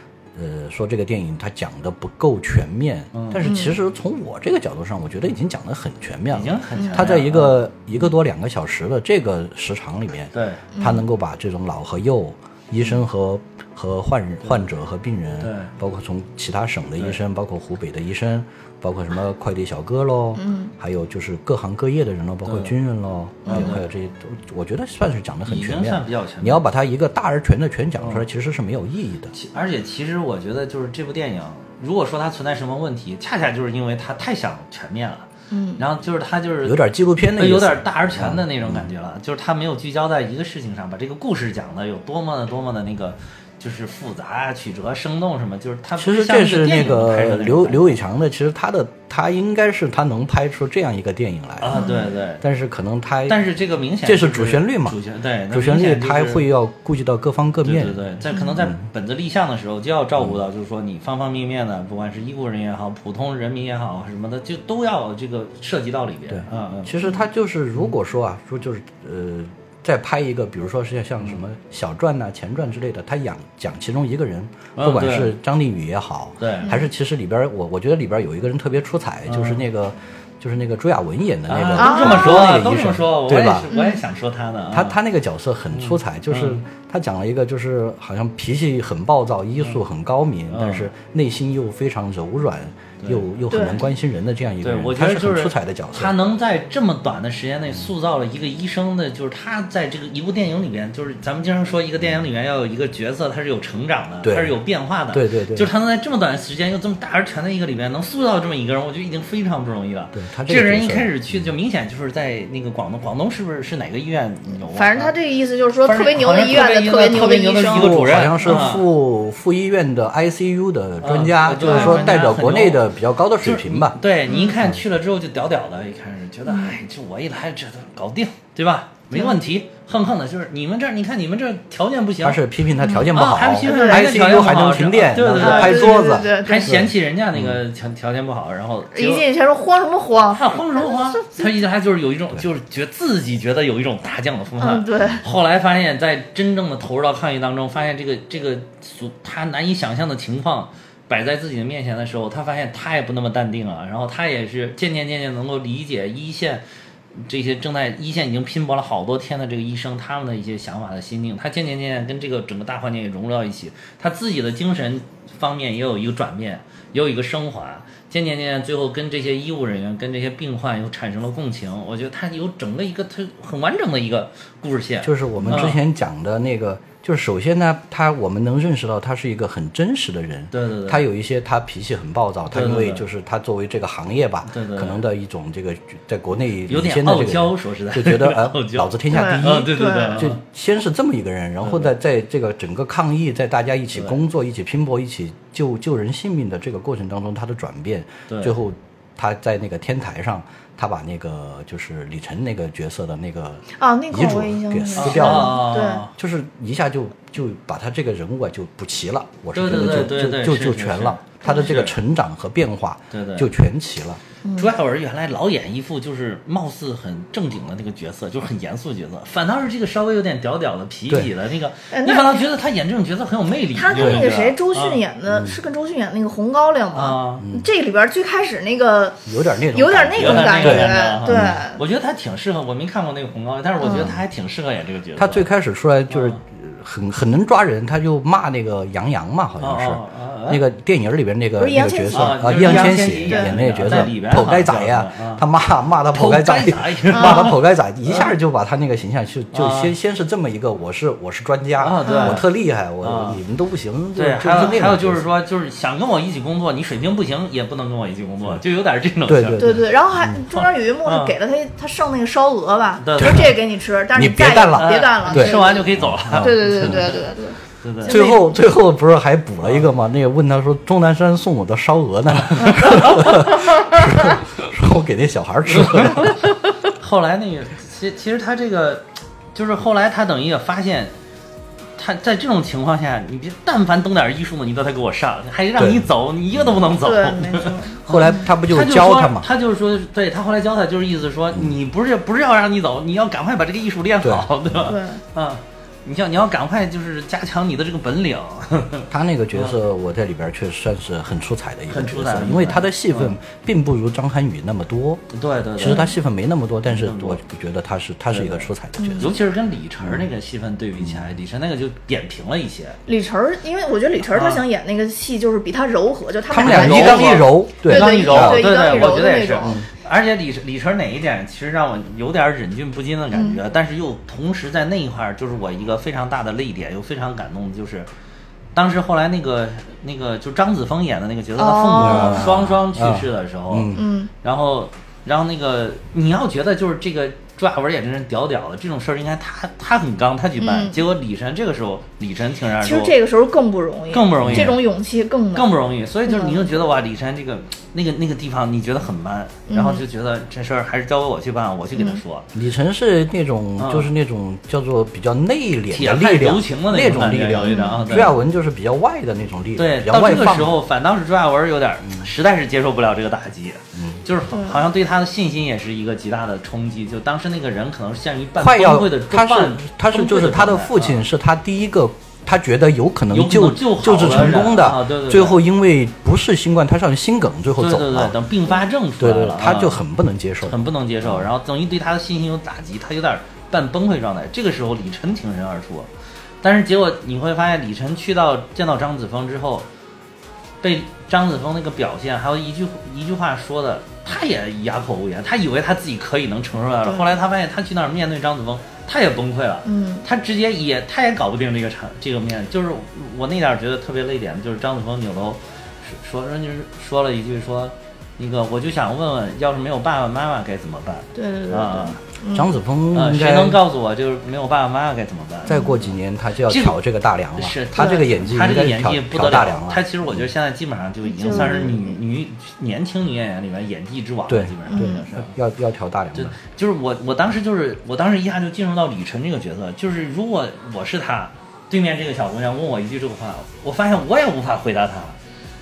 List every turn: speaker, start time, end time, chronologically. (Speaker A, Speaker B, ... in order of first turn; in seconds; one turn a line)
Speaker A: 0.3-29.3
Speaker B: 3.1-3.5
Speaker C: 3.4-3.7
Speaker B: 6.3-7.6
Speaker C: 6.7-7.0
Speaker B: 10.3-10.6
Speaker C: 10.7-11.0
Speaker B: 15.4-15.7
Speaker C: 20.4-20.7
Speaker B: 22.4-22.7
Speaker C: 23.4-23.7
Speaker B: 23.5-23.8
Speaker B: 25.4-26.6
Speaker B: 28.0-28.2
Speaker B: 29.3-35.3
Speaker C: 35.5-35.8
Speaker B: 35.8-36.8
Speaker A: 36.6-38.9
Speaker B: 37.4-48.0
Speaker A: 46.0-51.8
Speaker B: 51.6-52.4
Speaker C: 51.7-52.1
Speaker A: 52.4-53.4
Speaker B: 53.3-56.5
Speaker A: 54.0-58.0
Speaker B: 57.6-66.9
Speaker A: 58.5-58.9
Speaker A: 66.3-83.7
Speaker B: 74.8-75.3
Speaker B: 76.4-76.7
Speaker B: 79.2-79.6
Speaker B: 81.5-85.0
Speaker C: 81.8-82.5
Speaker C: 83.7-84.0
Speaker A: 84.7-96.2
Speaker B: 85.7-86.6
Speaker B: 90.5-90.9
Speaker B: 93.0-93.3
Speaker C: 93.5-93.8
Speaker B: 94.6-115.1
Speaker A: 104.2-104.6
Speaker A: 105.1-105.7
Speaker A: 110.1-111.5
Speaker C: 114.7-118.7
Speaker B: 115.8-118.8
Speaker A: 117.7-124.0
Speaker B: 121.0-132.4
Speaker C: 121.6-122.1
Speaker C: 124.3-124.6
Speaker C: 126.5-126.7
Speaker C: 129.1-129.4
Speaker A: 132.2-137.6
Speaker C: 132.8-134.2
Speaker B: 133.1-139.3
Speaker C: 135.3-136.8
Speaker C: 138.9-141.4
Speaker B: 140.3-156.6
Speaker C: 144.6-145.2
Speaker B: 157.2-175.8
Speaker A: 175.0-214.2
Speaker B: 180.5-181.0
Speaker B: 182.5-183.0
Speaker B: 184.5-185.0
Speaker B: 186.7-190.4
Speaker C: 189.1-190.3
Speaker B: 191.6-191.9
Speaker B: 198.3-198.6
Speaker C: 203.7-206.0
Speaker B: 205.0-206.1
Speaker B: 209.5-211.9
Speaker C: 211.4-211.7
Speaker B: 213.1-213.5
Speaker C: 214.4-214.7
Speaker B: 214.6-225.0
Speaker C: 221.9-222.4
Speaker C: 223.7-231.8
Speaker A: 223.9-224.3
Speaker A: 225.3-225.6
Speaker B: 226.9-227.4
Speaker A: 227.4-227.7
Speaker A: 229.2-231.6
Speaker B: 230.2-235.4
Speaker C: 233.8-234.2
Speaker A: 235.2-255.2
Speaker B: 236.1-236.4
Speaker B: 239.6-240.6
Speaker C: 241.6-244.1
Speaker B: 242.1-245.4
Speaker B: 246.1-248.3
Speaker C: 247.1-247.5
Speaker B: 249.5-249.9
Speaker B: 251.8-252.5
Speaker C: 252.0-252.4
Speaker B: 253.0-253.4
Speaker B: 254.1-259.8
Speaker A: 259.2-260.4
Speaker C: 259.6-268.5
Speaker B: 260.5-261.3
Speaker B: 263.0-263.5
Speaker A: 263.2-263.5
Speaker A: 264.1-267.1
Speaker B: 264.8-267.2
Speaker B: 267.8-268.2
Speaker A: 268.1-276.4
Speaker B: 269.6-269.9
Speaker B: 272.8-273.2
Speaker B: 275.7-281.1
Speaker B: 282.0-299.7
Speaker A: 285.8-286.1
Speaker C: 287.0-288.5
Speaker A: 288.1-289.5
Speaker A: 294.2-294.5
Speaker C: 294.8-295.2
Speaker A: 299.1-305.2
Speaker B: 301.9-303.4
Speaker B: 305.3-306.1
Speaker A: 305.8-309.3
Speaker B: 306.9-307.4
Speaker B: 308.3-313.0
Speaker C: 309.0-309.3
Speaker A: 311.0-311.3
Speaker C: 313.1-319.8
Speaker B: 314.3-314.6
Speaker A: 316.5-318.7
Speaker B: 316.5-328.1
Speaker A: 319.6-319.9
Speaker C: 323.3-323.6
Speaker B: 328.7-343.1
Speaker C: 331.6-332.5
Speaker A: 332.0-334.0
Speaker C: 333.9-334.3
Speaker C: 340.6-341.0
Speaker C: 342.8-345.7
Speaker B: 344.1-344.9
Speaker A: 344.4-344.8
Speaker B: 345.5-352.5
Speaker C: 346.2-346.7
Speaker C: 349.7-350.0
Speaker C: 351.9-352.2
Speaker A: 352.5-360.8
Speaker B: 353.8-354.1
Speaker B: 355.9-358.4
Speaker C: 357.6-358.2
Speaker B: 359.8-371.2
Speaker A: 363.9-364.2
Speaker C: 364.5-364.8
Speaker A: 368.6-378.4
Speaker B: 373.3-375.6
Speaker B: 377.8-380.0
Speaker A: 379.2-381.5
Speaker B: 380.6-386.1
Speaker B: 386.6-389.9
Speaker B: 390.8-412.2
Speaker C: 399.8-400.2
Speaker C: 411.3-412.7
Speaker A: 412.5-413.8
Speaker B: 413.1-416.1
Speaker C: 415.6-416.0
Speaker A: 415.6-420.5
Speaker B: 416.7-416.9
Speaker B: 417.6-425.5
Speaker C: 421.2-422.1
Speaker A: 424.5-426.6
Speaker C: 424.9-425.2
Speaker B: 426.3-435.4